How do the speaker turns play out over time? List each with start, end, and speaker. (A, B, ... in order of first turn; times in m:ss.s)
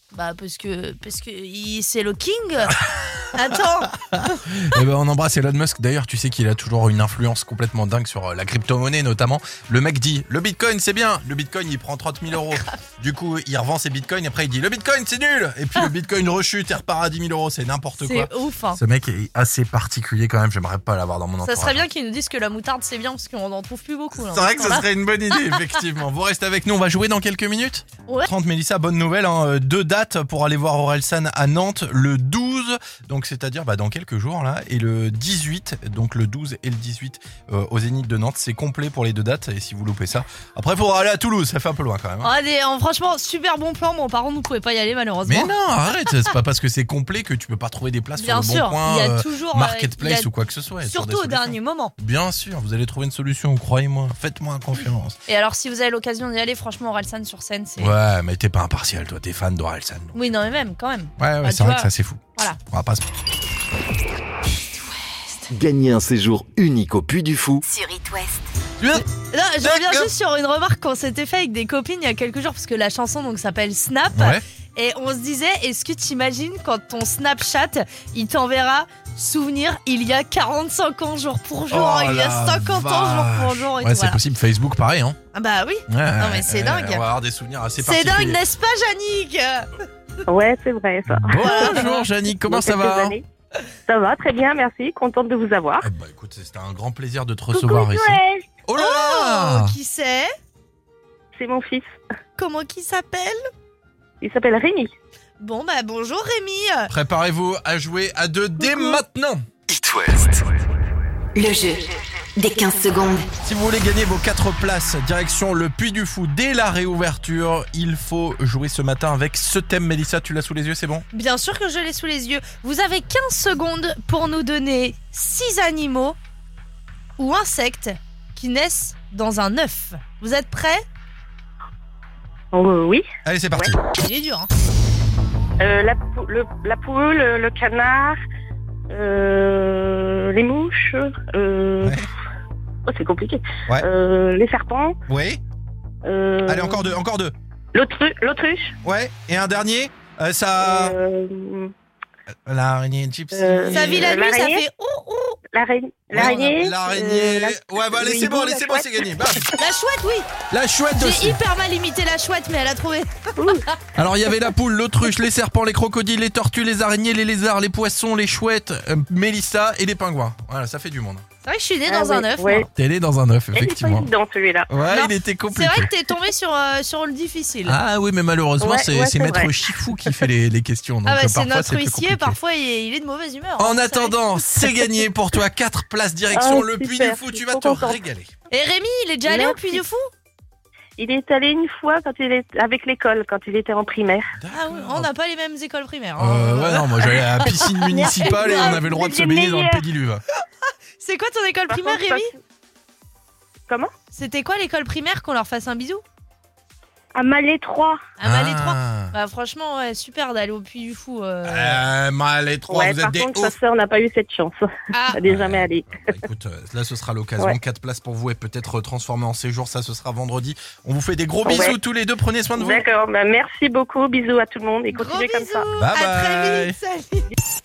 0:00.1-0:02.8 A
0:02.7-0:21.9 B
0:03.3-0:04.0 A
0:18.0-0:18.8 A
0:21.4-0:24.9 A
0:24.2-0:42.3 B
0:42.2-0:45.5 A
0:45.3-0:55.2 B
0:48.2-0:50.3 A
0:50.8-0:51.9 A
0:55.3-0:58.0 A
0:57.8-1:00.2 B
1:00.1-1:02.6 A
1:01.2-1:03.0 B
1:05.5-1:07.6 C
1:07.6-1:08.4 D
1:08.8-1:09.1 B
1:09.3-1:24.2 A
1:09.6-1:10.1 B
1:14.1-1:14.4 B
1:21.7-1:25.2 B
1:25.3-1:27.0 A
1:25.9-1:28.4 B
1:27.8-1:29.7 A
1:30.3-1:31.9 E
1:31.1-1:33.2 B
1:31.4-1:32.0 A
1:32.4-1:33.2 E
1:33.9-1:35.9 E
1:35.8-1:39.8 B
1:37.5-1:38.5 E
1:38.8-1:40.3 A
1:41.4-1:41.9 E
1:42.4-1:43.4 A
1:44.2-1:44.9 E
1:45.4-1:46.9 A
1:46.9-1:49.5 B
1:48.6-1:49.0 A
1:49.7-1:50.5 C
1:51.4-1:53.3 D
1:53.4-2:01.0 B
2:01.1-2:06.2 A
2:07.2-2:10.8 A
2:12.5-2:13.0 E
2:13.2-2:13.8 B
2:14.0-2:14.5 A
2:15.6-2:18.2 E
2:18.9-2:22.0 E
2:21.8-2:22.1 B
2:22.9-2:25.0 E
2:25.1-2:25.4 B
2:26.0-2:26.9 E
2:26.5-2:27.4 B
2:27.8-2:28.7 E
2:28.8-2:31.0 B
2:30.6-2:31.7 E
2:32.5-2:34.2 B
2:33.3-2:34.6 E
2:33.7-2:35.4 A
2:35.5-2:39.0 E
2:36.1-2:39.5 B
2:39.6-2:40.3 A
2:40.5-2:41.4 B
2:41.0-2:43.8 A
2:43.4-2:43.6 E
2:44.0-2:51.2 B
2:51.4-2:52.7 A
2:51.9-2:52.7 E
2:52.7-2:54.1 B
2:53.5-2:54.7 E
2:54.7-2:55.9 B
2:54.9-2:57.8 A
2:57.7-3:02.4 B
2:58.6-2:59.5 E
3:01.1-3:04.8 A
3:03.6-3:08.3 B
3:06.3-3:08.0 E
3:08.5-3:10.1 A
3:09.3-3:09.8 E
3:11.0-3:14.3 E
3:14.4-3:15.1 B
3:14.5-3:18.8 A
3:16.2-3:20.2 B
3:17.9-3:19.8 E
3:21.0-3:22.3 A
3:21.7-3:22.3 E
3:24.1-3:26.0 A
3:27.2-3:28.0 E
3:28.2-3:31.9 A
3:28.2-3:29.2 B
3:31.4-3:33.5 B
3:32.7-3:36.2 E
3:34.9-3:35.2 A
3:35.2-3:42.9 B
3:41.4-3:41.8 E
3:42.6-3:45.7 E
3:44.9-3:47.3 A
3:45.8-3:46.8 B